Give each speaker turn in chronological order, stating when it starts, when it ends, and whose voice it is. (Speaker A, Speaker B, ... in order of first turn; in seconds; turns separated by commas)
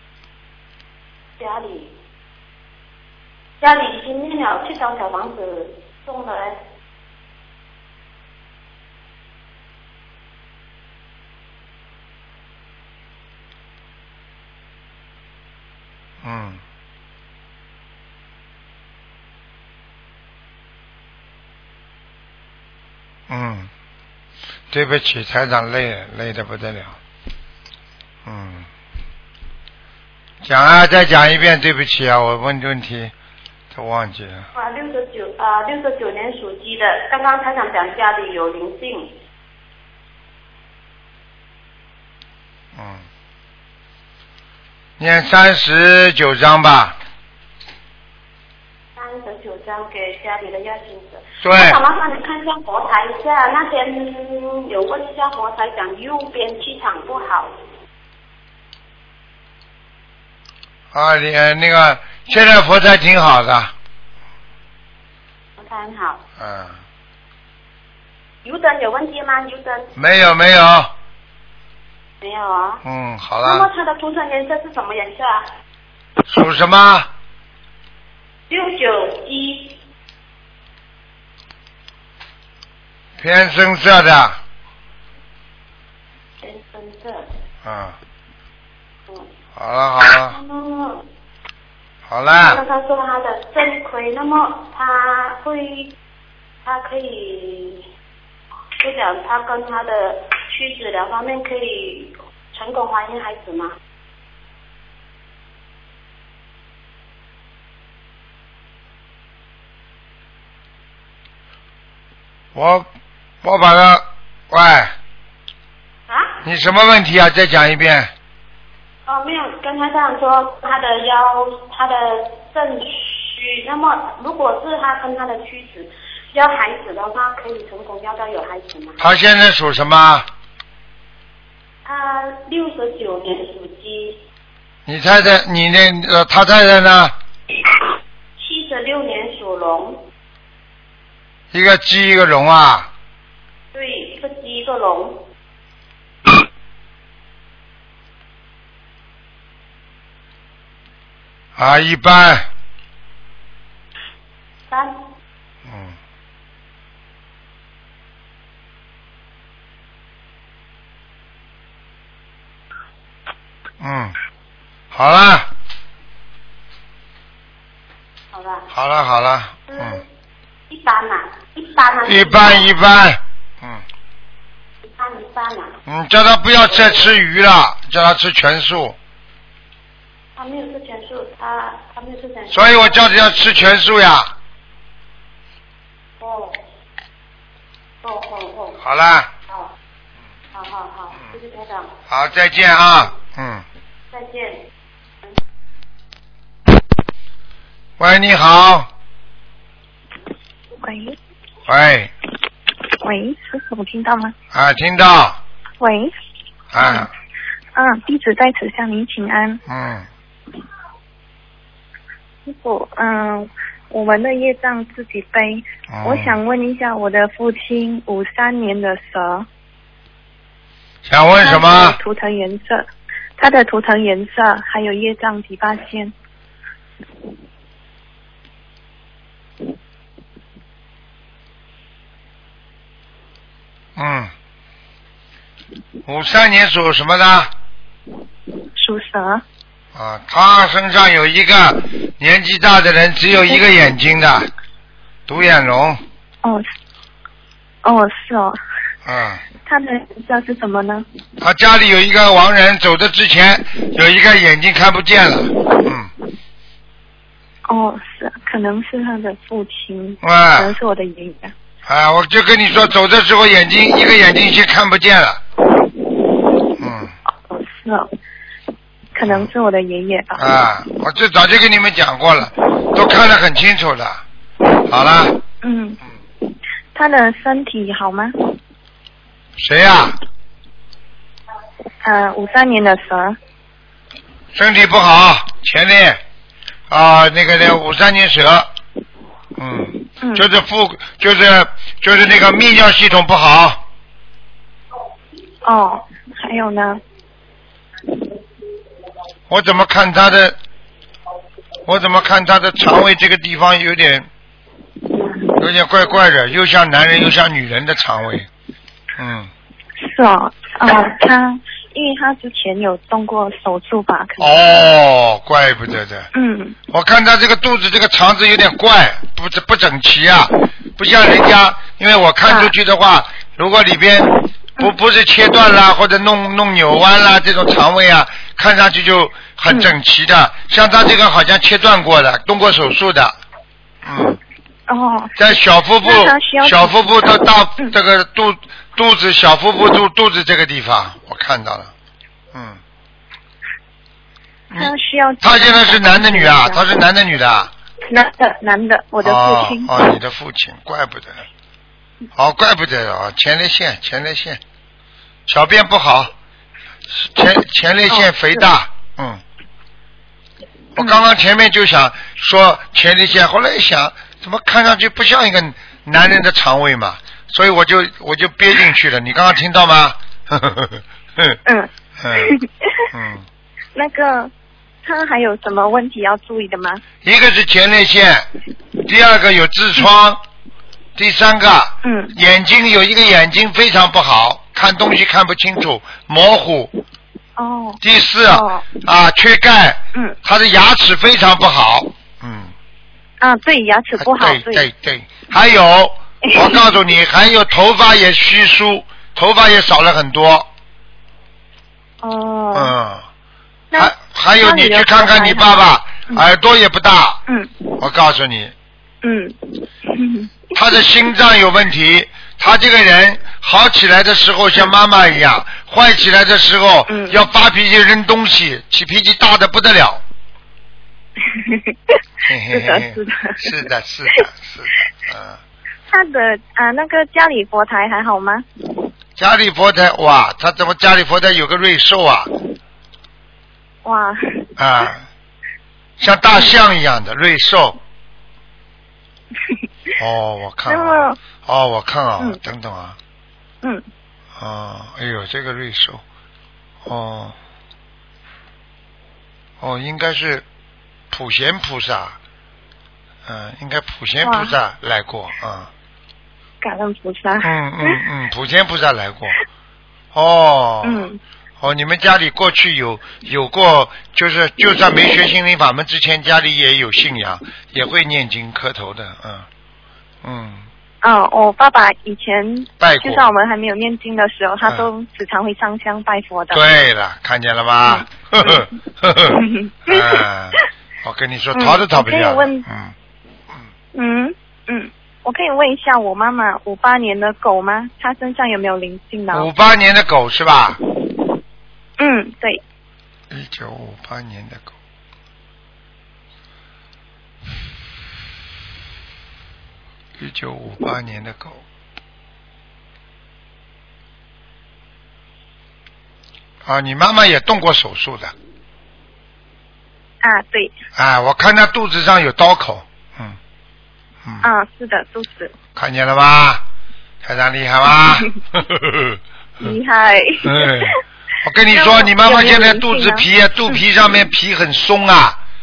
Speaker A: 1.4-1.9, Speaker A: 3.6-6.6, Speaker B: 16.2-16.6, Speaker B: 23.3-23.7, Speaker B: 24.7-27.0, Speaker B: 28.2-28.7, Speaker B: 30.4-33.1, Speaker B: 33.7-34.5, Speaker A: 34.5-39.1, Speaker B: 42.7-43.0, Speaker B: 45.0-47.0, Speaker A: 48.9-57.5, Speaker B: 51.4-51.8, Speaker B: 60.9-63.7, Speaker A: 65.6-66.2, Speaker B: 66.4-66.8, Speaker A: 68.4-69.9, Speaker B: 70.0-70.9, Speaker A: 72.2-72.8, Speaker B: 72.8-73.7, Speaker A: 73.4-75.5, Speaker B: 76.3-77.1, Speaker A: 78.5-79.8, Speaker B: 83.2-84.4, Speaker A: 86.4-87.3, Speaker B: 87.6-88.0, Speaker B: 89.5-90.4, Speaker A: 90.1-91.0, Speaker B: 92.1-92.6, Speaker A: 92.3-95.9, Speaker A: 96.6-97.8, Speaker A: 98.8-103.7, Speaker B: 112.5-112.9, Speaker B: 113.4-114.9, Speaker A: 116.1-116.4, Speaker B: 116.4-118.1, Speaker A: 119.1-129.0, Speaker B: 129.0-130.2, Speaker A: 131.8-134.2, Speaker B: 134.8-137.1, Speaker A: 138.4-140.1, Speaker B: 141.5-142.9, Speaker A: 143.7-145.3, Speaker B: 151.6-152.5, Speaker A: 154.7-154.9, Speaker B: 155.6-155.9, Speaker B: 163.8-164.1, Speaker B: 164.9-165.5, Speaker A: 168.3-168.7, Speaker B: 168.7-170.0, Speaker A: 169.7-170.0, Speaker A: 170.7-172.7, Speaker B: 172.0-173.8, Speaker A: 174.8-175.8, Speaker B: 175.8-178.9, Speaker A: 176.7-177.1, Speaker A: 180.3-183.7, Speaker B: 182.5-184.3, Speaker A: 186.2-186.6, Speaker A: 188.0-188.8, Speaker B: 188.8-189.3, Speaker A: 190.5-191.9, Speaker B: 192.1-193.6, Speaker A: 194.1-194.6, Speaker B: 198.0-198.9, Speaker C: 200.8-201.2, Speaker B: 201.7-202.1, Speaker C: 203.0-204.3, Speaker B: 204.5-205.4, Speaker C: 205.8-206.1, Speaker B: 206.7-207.1, Speaker C: 206.8-207.1, Speaker C: 207.7-209.6, Speaker B: 209.7-210.1, Speaker C: 212.4-219.5, Speaker B: 215.9-216.4, Speaker B: 221.1-222.0, Speaker C: 221.4-222.9, Speaker C: 223.4-226.1, Speaker B: 233.9-234.3, Speaker B: 236.1-237.5, Speaker C: 238.8-239.4, Speaker B: 239.9-244.5, Speaker B: 245.3-246.0, Speaker C: 247.8-248.6, Speaker B: 249.0-249.4, Speaker C: 249.6-251.1, Speaker B: 251.4-256.1, Speaker C: 257.7-261.5, Speaker B: 260.2-260.8, Speaker B: 261.9-265.4, Speaker B: 266.8-267.1, Speaker C: 267.5-268.1, Speaker C: 269.1-270.4, Speaker B: 269.2-269.5, Speaker B: 270.4-274.2, Speaker B: 274.9-275.4, Speaker C: 275.6-276.0, Speaker C: 276.9-278.3, Speaker B: 279.6-280.2, Speaker C: 282.0-283.4, Speaker B: 284.5-286.2, Speaker B: 286.9-288.7, Speaker B: 289.6-293.8, Speaker C: 290.2-290.5, Speaker C: 295.6-297.0, Speaker B: 299.5-300.6, Speaker B: 301.9-304.3, Speaker C: 305.1-305.4, Speaker B: 305.6-308.5, Speaker B: 309.2-309.5, Speaker C: 310.0-314.7, Speaker B: 314.4-316.3, Speaker C: 316.3-316.8, Speaker B: 316.9-333.4, Speaker C: 322.5-322.7, Speaker B: 334.0-334.4, Speaker C: 334.9-335.4, Speaker B: 335.4-341.9, Speaker C: 336.0-337.9, Speaker B: 342.5-342.8, Speaker B: 344.7-347.7, Speaker C: 344.7-346.9, Speaker C: 348.1-349.9, Speaker B: 349.2-351.4, Speaker B: 352.4-354.6, Speaker B: 355.5-356.3, Speaker B: 357.1-359.4, Speaker C: 358.1-358.7, Speaker B: 360.9-371.6, Speaker C: 371.6-373.1, Speaker B: 372.2-372.5, Speaker B: 373.1-373.5, Speaker C: 373.9-374.5, Speaker C: 375.0-377.0, Speaker B: 377.2-378.5, Speaker B: 379.0-380.4, Speaker B: 381.2-386.9, Speaker C: 382.0-382.4, Speaker C: 387.6-388.8, Speaker B: 388.0-392.7, Speaker C: 393.4-394.9, Speaker B: 394.2-400.7, Speaker C: 396.4-397.0, Speaker C: 402.2-402.9, Speaker B: 402.7-403.2, Speaker C: 403.9-406.4, Speaker B: 403.9-407.4, Speaker C: 407.5-408.0, Speaker B: 408.0-408.7, Speaker C: 409.2-411.0, Speaker B: 410.7-420.2, Speaker C: 417.1-417.4, Speaker C: 421.4-422.1, Speaker B: 422.4-425.6, Speaker C: 422.7-424.4, Speaker C: 426.1-428.6, Speaker B: 429.4-432.5, Speaker C: 434.0-434.7, Speaker B: 434.8-435.2, Speaker B: 436.2-438.0, Speaker B: 440.2-443.2, Speaker C: 440.9-441.4, Speaker B: 444.6-446.2, Speaker B: 447.1-447.6, Speaker B: 449.8-450.6, Speaker B: 451.3-452.4, Speaker B: 453.4-455.9, Speaker C: 454.4-454.8, Speaker C: 456.8-458.2, Speaker B: 457.6-459.6, Speaker B: 460.3-461.3, Speaker C: 461.0-461.4, Speaker B: 461.8-469.7, Speaker B: 470.4-470.9, Speaker C: 471.2-476.8, Speaker B: 473.0-473.5, Speaker B: 474.8-475.1, Speaker B: 476.7-483.1, Speaker C: 478.1-478.8, Speaker C: 479.5-480.8, Speaker C: 481.7-482.9, Speaker C: 484.1-489.7, Speaker B: 489.5-491.0, Speaker C: 492.2-492.8, Speaker B: 493.5-494.9, Speaker B: 500.4-501.8, Speaker B: 506.8-508.5, Speaker C: 510.4-510.9, Speaker B: 511.1-513.6, Speaker B: 514.4-514.7, Speaker C: 514.6-515.7, Speaker B: 516.0-516.8, Speaker B: 517.4-519.4, Speaker C: 519.8-521.2, Speaker B: 520.6-525.6, Speaker C: 521.9-524.0